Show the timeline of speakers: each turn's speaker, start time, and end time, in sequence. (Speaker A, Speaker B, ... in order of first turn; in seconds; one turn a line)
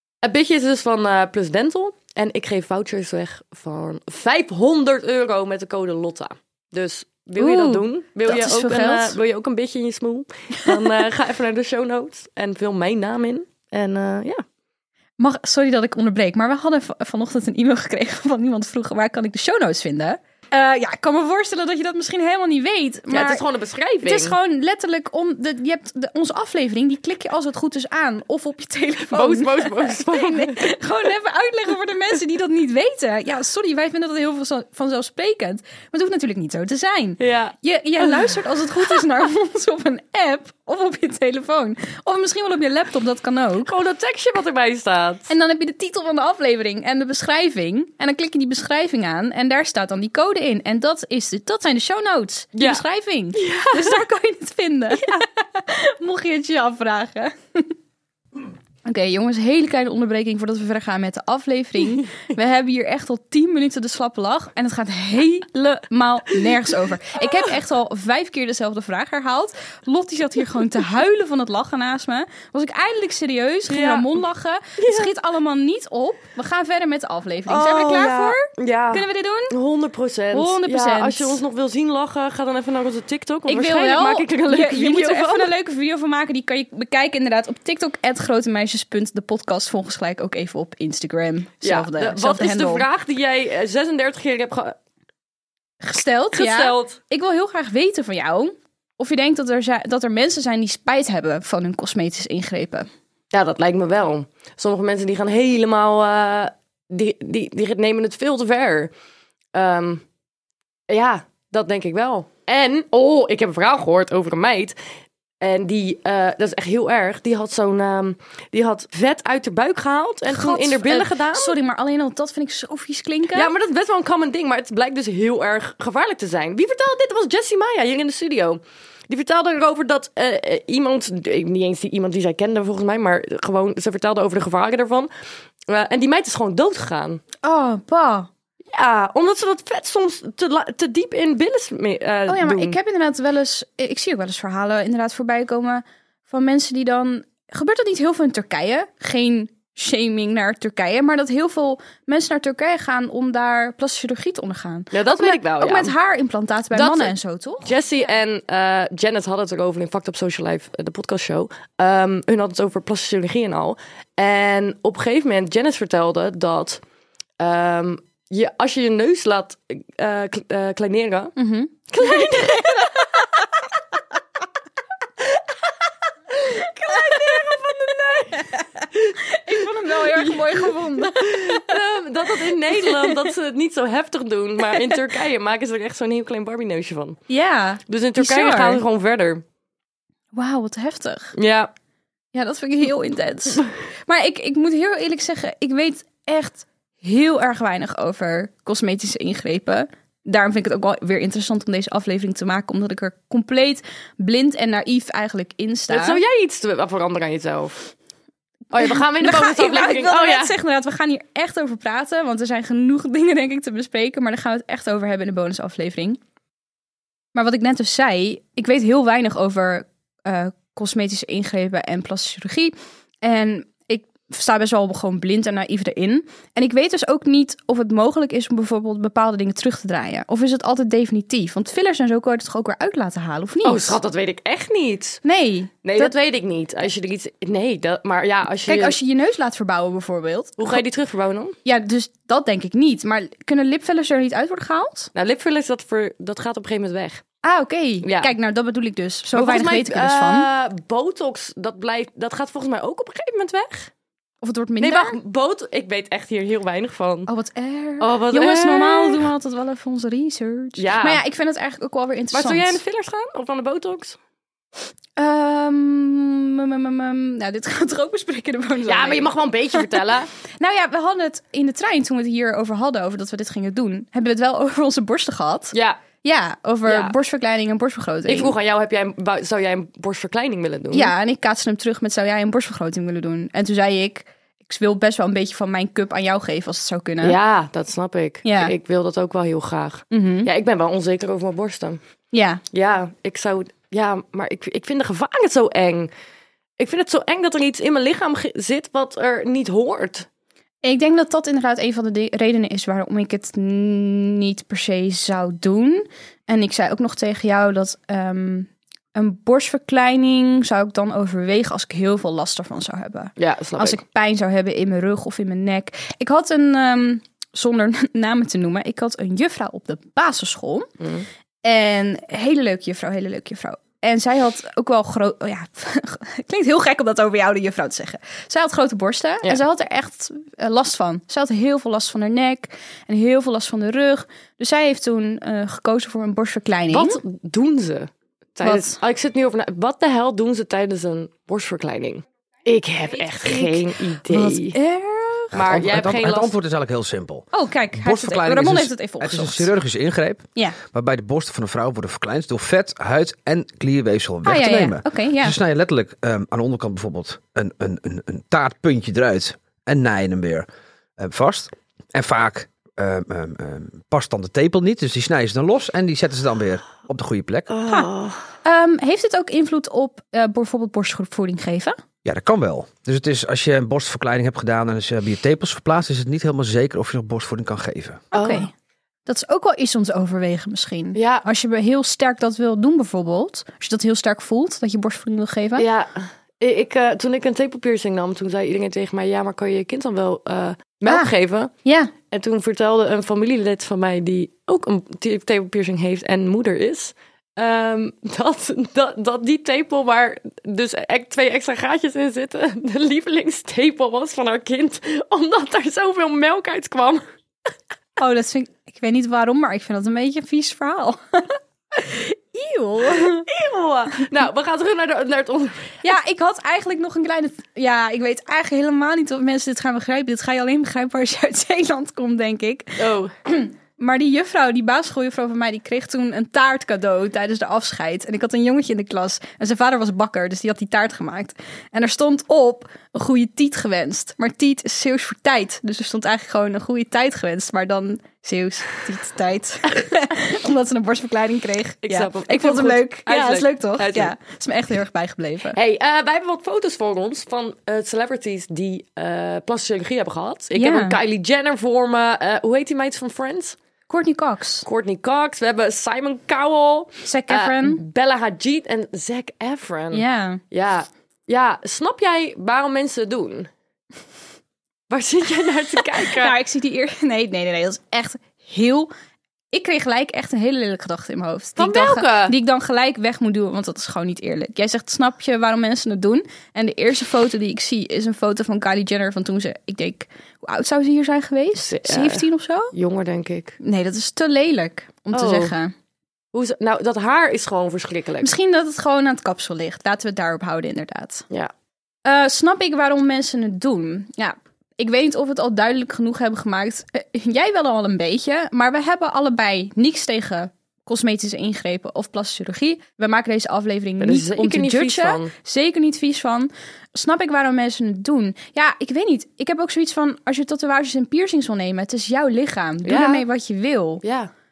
Speaker A: 0.2-14.4
Speaker B: 7.4-9.2
Speaker B: 15.2-23.4
Speaker A: 23.1-24.4
Speaker B: 24.0-43.7
Speaker A: 29.1-30.7
Speaker A: 37.2-38.3
Speaker A: 43.7-45.3
Speaker B: 45.3-57.7
Speaker A: 52.5-52.8
Speaker A: 53.4-54.1
Speaker A: 54.9-55.2
Speaker B: 58.8-79.5
Speaker A: 73.7-74.1
Speaker A: 74.8-75.1
Speaker A: 77.5-85.5
Speaker B: 80.3-81.4
Speaker B: 83.5-92.9
Speaker A: 91.6-94.8
Speaker B: 95.8-102.9
Speaker A: 96.3-97.0
Speaker A: 103.3-108.9
Speaker A: 109.5-110.0
Speaker A: 110.9-114.8
Speaker A: 115.4-121.5
Speaker B: 120.3-123.5
Speaker A: 123.3-135.1
Speaker A: 135.7-137.2
Speaker B: 137.4-138.3
Speaker A: 138.7-142.8
Speaker B: 142.3-157.8
Speaker A: 154.9-155.9
Speaker A: 156.7-166.8
Speaker A: 167.4-171.3
Speaker B: 171.4-172.7
Speaker A: 171.9-173.2
Speaker A: 176.5-178.5
Speaker B: 177.1-177.4
Speaker B: 178.3-181.8
Speaker A: 180.2-187.2
Speaker B: 182.8-183.2
Speaker B: 187.3-188.8
Speaker A: 187.9-189.4
Speaker B: 190.3-191.3
Speaker A: 191.4-191.7
Speaker B: 192.3-206.2
Speaker A: 205.9-207.8
Speaker A: 208.7-210.5
Speaker B: 208.8-216.2
Speaker B: 217.3-234.0
Speaker A: 233.6-235.2
Speaker B: 235.2-236.1
Speaker A: 235.8-239.0
Speaker B: 238.7-240.8
Speaker A: 240.6-241.6
Speaker B: 241.7-245.1
Speaker A: 245.2-247.2
Speaker B: 247.4-250.5
Speaker A: 248.0-248.3
Speaker A: 249.3-253.9
Speaker B: 254.4-255.2
Speaker A: 254.8-257.3
Speaker B: 257.3-262.8
Speaker A: 258.0-259.3
Speaker A: 260.8-261.2
Speaker A: 262.3-264.2
Speaker B: 265.2-278.6
Speaker A: 268.9-270.3
Speaker A: 275.7-276.0
Speaker A: 276.9-277.1
Speaker A: 278.3-281.1
Speaker B: 280.9-287.4
Speaker A: 287.2-292.0
Speaker B: 288.4-288.7
Speaker B: 290.1-290.5
Speaker B: 292.3-292.6
Speaker A: 292.7-296.1
Speaker A: 296.8-300.3
Speaker B: 300.8-320.9
Speaker A: 313.4-314.0
Speaker A: 321.0-321.2
Speaker B: 321.6-337.2
Speaker A: 336.9-344.8
Speaker B: 338.6-339.0
Speaker B: 343.4-345.6
Speaker A: 345.5-346.5
Speaker C: 345.6-367.7
Speaker B: 347.5-349.7
Speaker B: 354.4-355.6
Speaker A: 367.7-368.4
Speaker B: 368.6-372.0
Speaker C: 372.2-378.2
Speaker B: 378.3-378.7
Speaker A: 378.3-378.7
Speaker B: 379.3-385.9
Speaker A: 381.1-381.4
Speaker A: 385.8-391.7
Speaker B: 391.1-391.3
Speaker B: 391.8-392.1
Speaker A: 392.3-407.2
Speaker B: 408.2-413.4
Speaker A: 413.0-415.7
Speaker B: 416.0-445.8
Speaker A: 423.0-423.3
Speaker A: 442.1-444.3
Speaker A: 445.7-453.8
Speaker B: 450.8-451.2
Speaker B: 454.1-454.9
Speaker A: 454.9-463.7
Speaker B: 457.2-458.0
Speaker B: 460.1-460.6
Speaker A: 465.1-466.6
Speaker B: 466.1-469.1
Speaker B: 469.7-482.9
Speaker A: 471.8-472.6
Speaker A: 481.8-483.8
Speaker B: 483.8-485.9
Speaker A: 485.3-485.7
Speaker A: 486.5-488.6
Speaker B: 488.4-491.5
Speaker B: 492.2-514.2
Speaker A: 504.2-505.5
Speaker A: 513.1-513.5
Speaker A: 514.2-514.5